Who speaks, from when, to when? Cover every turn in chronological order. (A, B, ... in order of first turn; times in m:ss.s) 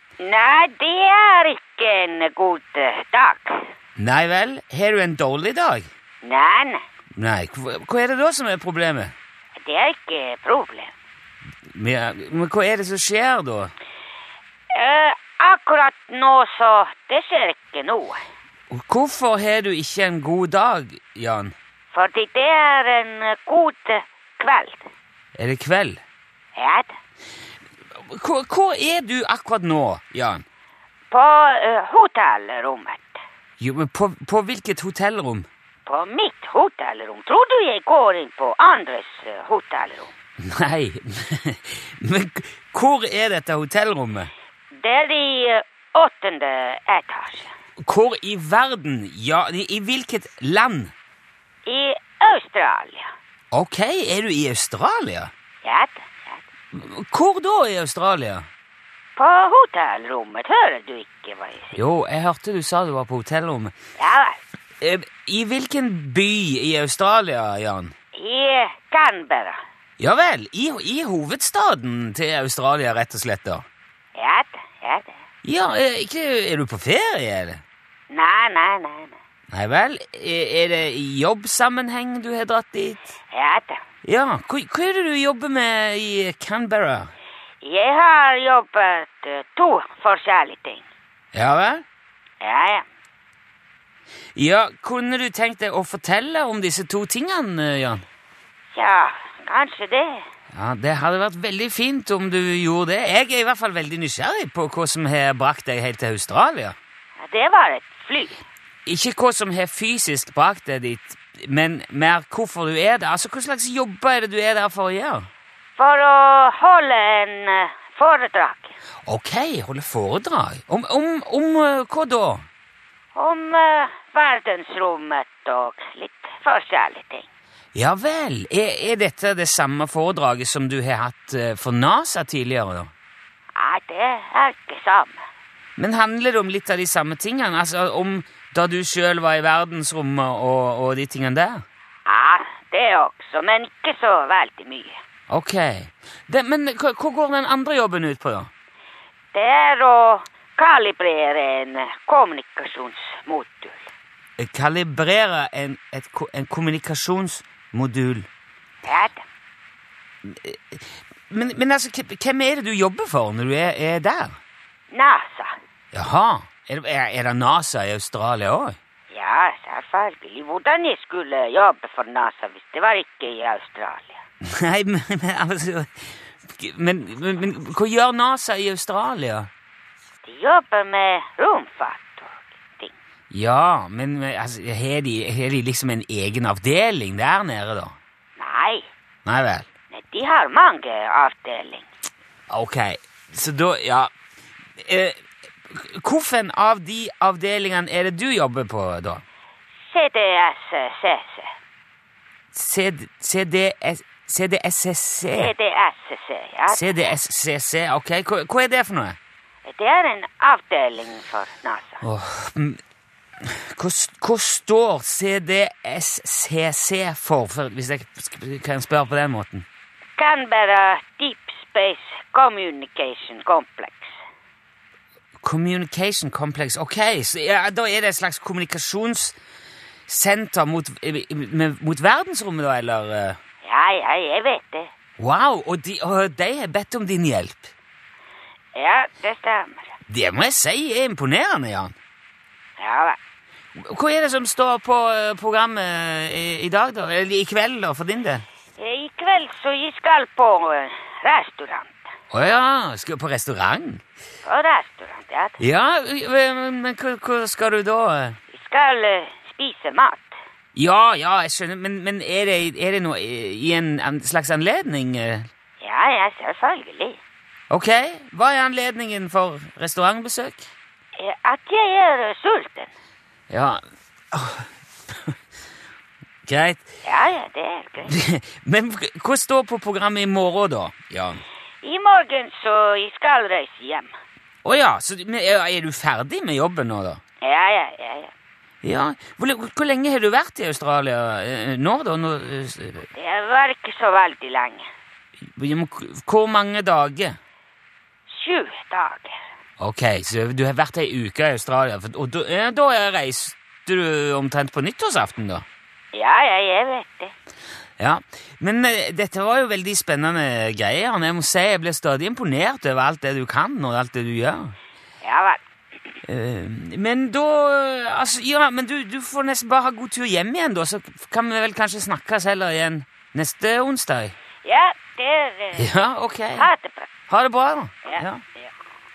0:00.2-0:03.7 A
0:04.0-0:05.9 B
0:06.2-0:06.8 A
0:07.2-0:09.1 B
0:09.6-0:10.9 A
0:11.7-0:13.7 B
0:14.7-0:18.2 A
0:18.7-0:21.5 B
0:21.9-0:24.9 A
0:25.3-0:26.0 B
0:26.5-0:27.0 A
0:27.9-0:30.4 B
0:31.1-0:33.2 A
0:33.6-0:35.5 B
0:35.8-0:40.1 A
0:40.4-0:44.3 B
0:44.8-0:47.5 A
0:47.8-0:50.9 B
0:51.6-0:53.1 A
0:53.5-0:55.3 B
0:55.6-0:56.4 A
0:56.7-0:58.5 B
0:59.2-1:01.8 A
1:01.7-1:03.7 B
1:04.0-1:04.4 A
1:04.8-1:07.9 B
1:08.1-1:09.6 A
1:10.0-1:13.6 B
1:14.2-1:15.2 A
1:15.4-1:17.6 B
1:18.1-1:19.2 A
1:19.5-1:23.1 B
1:23.3-1:23.8 A
1:24.0-1:27.1 B
1:27.6-1:30.8 A
1:31.3-1:31.8 B
1:32.4-1:32.8 A
1:34.3-1:38.0 B
1:38.7-1:40.2 A
1:40.5-1:46.8 B
1:47.2-1:48.4 A
1:48.8-1:55.3 B
1:55.8-1:58.7 A
1:59.0-2:02.4 B
2:03.1-2:07.3 A
2:07.7-2:12.9 B
2:13.6-2:15.2 A
2:15.8-2:21.6 B
2:22.1-2:25.0 A
2:25.3-2:28.5 B
2:29.3-2:33.9 A
2:34.4-2:38.3 B
2:38.8-2:39.2 A
2:40.2-2:44.4 B
2:44.9-2:45.5 A
2:45.9-2:48.8 B
2:49.1-2:54.2 A
2:54.4-2:59.5 B
3:00.2-3:02.9 A
3:03.3-3:08.0 B
3:08.4-3:08.9 A
3:09.2-3:09.7 B
3:09.9-3:11.9 A
3:12.5-3:14.1 B
3:14.8-3:19.2 B
3:19.9-3:21.5 A
3:22.5-3:25.5 B
3:25.3-3:27.1 A
3:26.7-3:29.2 B
3:29.6-3:32.0 A
3:32.0-3:32.8 B
3:33.4-3:39.6 B
3:40.2-3:44.2 A
3:45.4-3:49.4 B
3:50.1-3:53.4 B
3:53.6-3:54.9 A
3:55.2-3:57.7 B
3:58.7-3:59.9 A
4:00.1-4:01.9 B
4:02.8-4:03.2 A
4:03.8-4:08.4 B
4:08.8-4:12.0 A
4:12.3-4:14.0 B
4:14.4-4:15.6 A
4:15.6-4:18.4 B
4:18.5-4:20.4 A
4:20.7-4:25.5 B
4:25.8-4:27.2 A
4:27.7-4:30.7 B
4:31.2-4:32.9 A
4:33.5-4:33.8 B
4:34.3-4:34.7 B
4:36.4-4:36.9 B
4:37.0-4:38.1 A
4:38.0-4:41.4 B
4:41.8-4:44.1 A
4:44.6-4:47.2 B
4:47.4-4:48.3 A
4:48.8-4:53.1 B
4:53.1-4:54.9 A
4:55.5-4:57.4 B
4:58.3-4:59.4 A
4:59.8-5:05.6 B
5:06.1-5:07.3 A
5:08.0-5:14.7 B
5:15.2-5:15.6 A
5:16.2-5:24.3 B
5:24.6-5:27.1 A
5:25.8-5:26.7 B
5:27.3-5:28.4 B
5:28.0-5:28.7 A